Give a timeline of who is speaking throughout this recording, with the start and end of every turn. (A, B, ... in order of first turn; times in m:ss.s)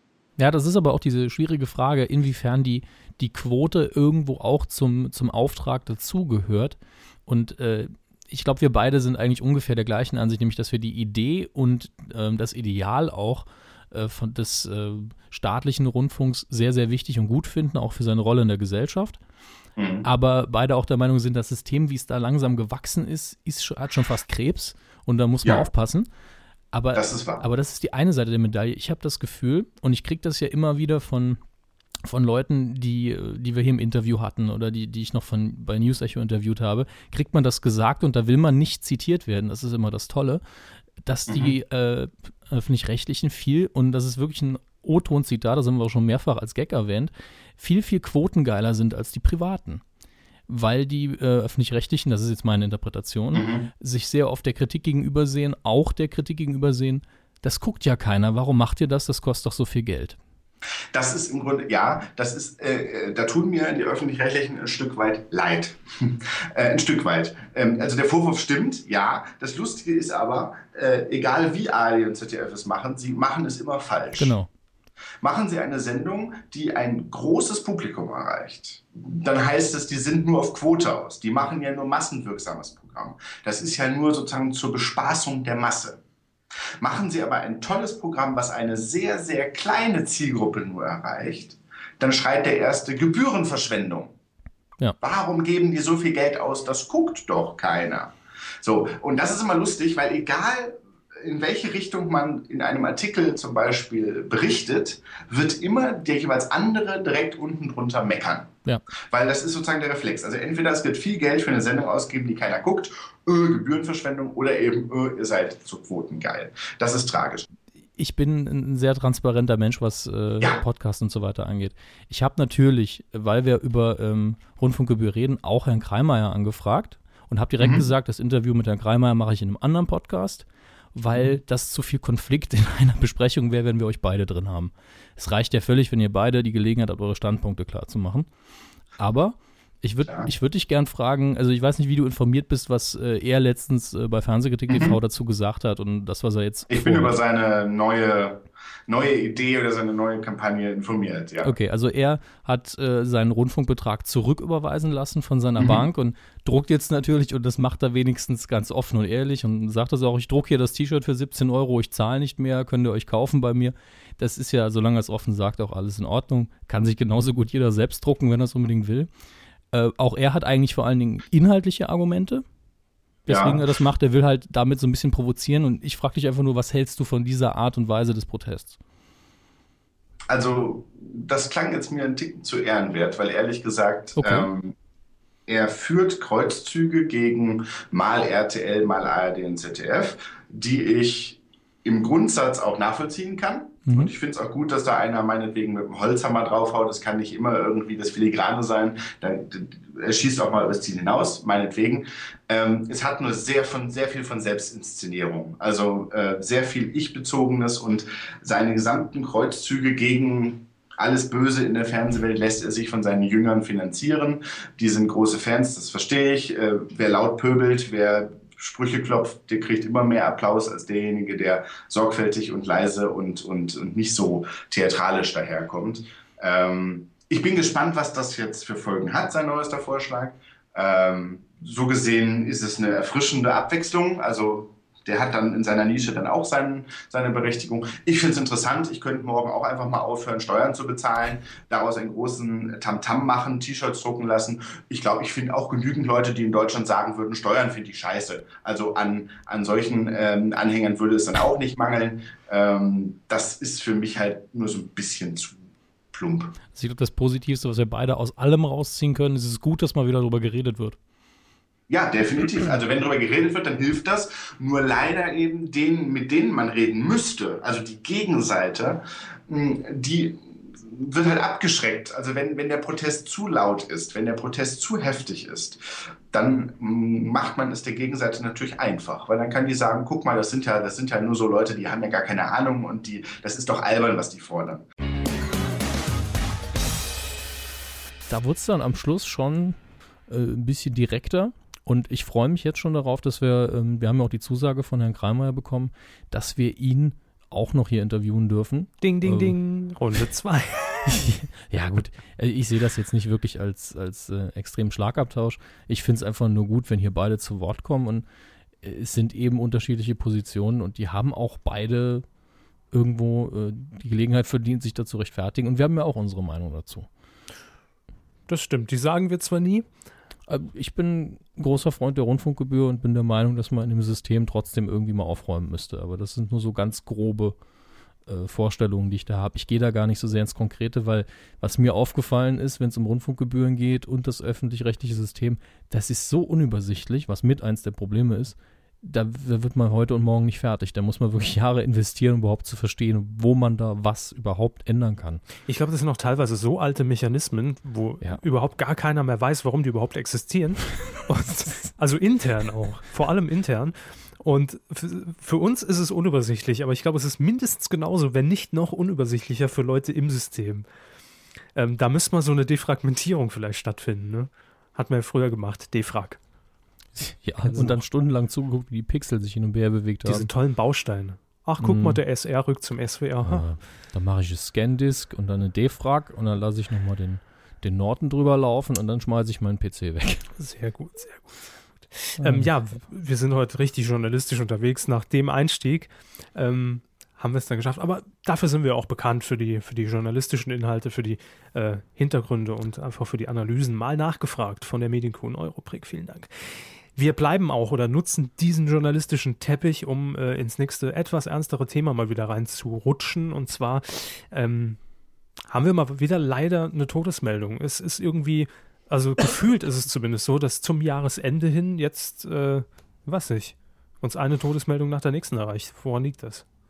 0:00.4-0:19.2 A
0:19.8-0:20.0 B
0:20.0-0:26.1 A
0:26.7-0:31.4 A
0:26.9-0:27.4 B
0:32.0-0:40.4 A
0:41.0-0:49.8 A
0:41.3-0:41.5 B
0:50.5-1:00.2 A
0:53.3-0:53.7 B
1:00.9-1:14.4 B
1:14.2-1:14.5 A
1:15.2-1:26.0 B
1:26.8-1:34.1 B
1:35.0-1:48.5 B
1:49.1-1:57.5 B
1:58.0-2:18.3 A
2:07.6-2:07.8 B
2:19.0-2:27.2 A
2:24.7-2:25.0 B
2:26.7-2:31.5 B
2:31.4-2:49.1 A
2:35.6-2:35.9 B
2:49.7-2:52.4 A
2:53.2-2:58.8 A
2:53.3-2:53.6 B
3:00.3-3:04.7 B
3:04.2-3:04.5 A
3:05.5-4:15.6 B
4:16.1-4:16.6 B
4:16.7-4:21.0 A
4:21.9-4:35.8 B
4:36.3-4:44.8 B
4:48.3-4:49.8 A
4:50.3-4:59.5 A
4:59.0-5:01.3 C
5:01.1-5:08.2 A
5:08.8-5:12.2 A
5:12.9-5:17.1 A
5:18.5-5:19.8 C
5:20.5-5:27.6 A
5:28.2-5:45.4 A
5:45.6-6:00.8 C
6:01.7-6:06.4 C
6:07.2-6:10.5 A
6:07.6-6:08.0 C
6:10.2-6:13.6 C
6:11.8-6:12.2 A
6:13.4-6:20.5 A
6:20.6-6:45.0 C
6:22.4-6:22.7 A
6:45.7-6:56.6 C